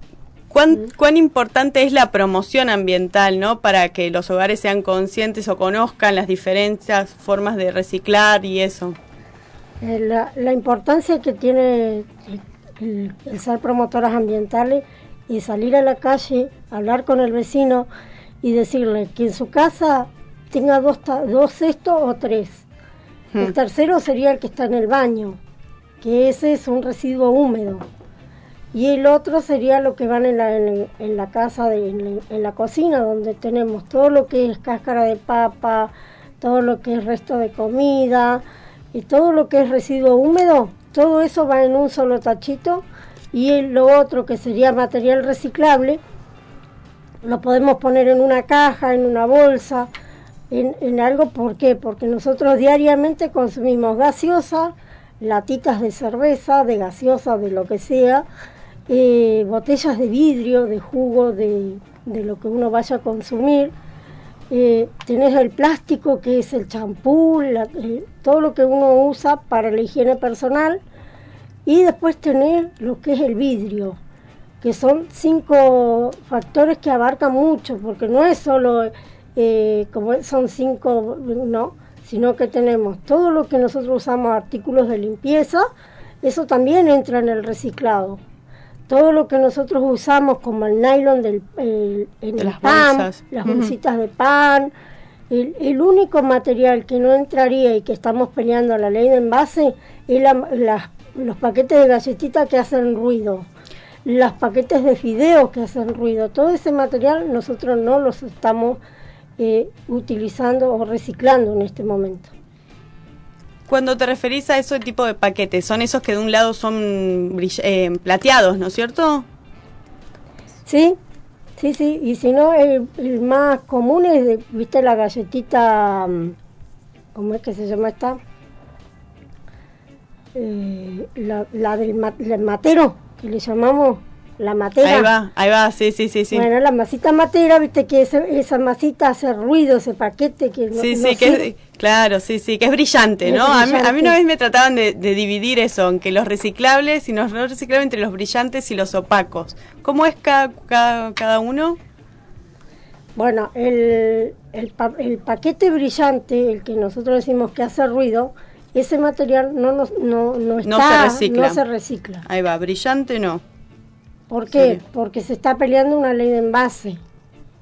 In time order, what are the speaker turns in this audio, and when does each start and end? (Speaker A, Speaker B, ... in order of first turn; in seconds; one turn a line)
Speaker A: 0.5-9.0
Speaker B: 9.8-17.9
Speaker B: 18.4-22.6
Speaker B: 23.4-25.4
Speaker B: 26.0-27.9
Speaker B: 28.7-38.4
Speaker B: 38.9-46.0
Speaker B: 47.2-49.9
Speaker B: 50.5-58.3
Speaker B: 58.9-63.7
Speaker B: 64.5-70.8
Speaker B: 71.7-74.0
Speaker B: 74.6-85.7
Speaker B: 86.2-88.2
Speaker B: 88.9-94.7
Speaker A: 92.4-93.7
Speaker B: 95.3-103.5
Speaker B: 104.1-108.8
Speaker B: 109.4-112.3
Speaker A: 113.7-119.2
Speaker B: 120.7-121.0
Speaker B: 121.6-126.3
Speaker B: 127.2-128.2
Speaker B: 130.3-135.1
Speaker A: 134.8-136.5
Speaker B: 136.3-141.5
Speaker A: 140.7-151.8
Speaker B: 143.2-144.2
Speaker B: 153.2-162.2
Speaker A: 160.6-161.6
Speaker A: 162.2-163.4
Speaker B: 164.3-167.0
Speaker A: 164.5-164.8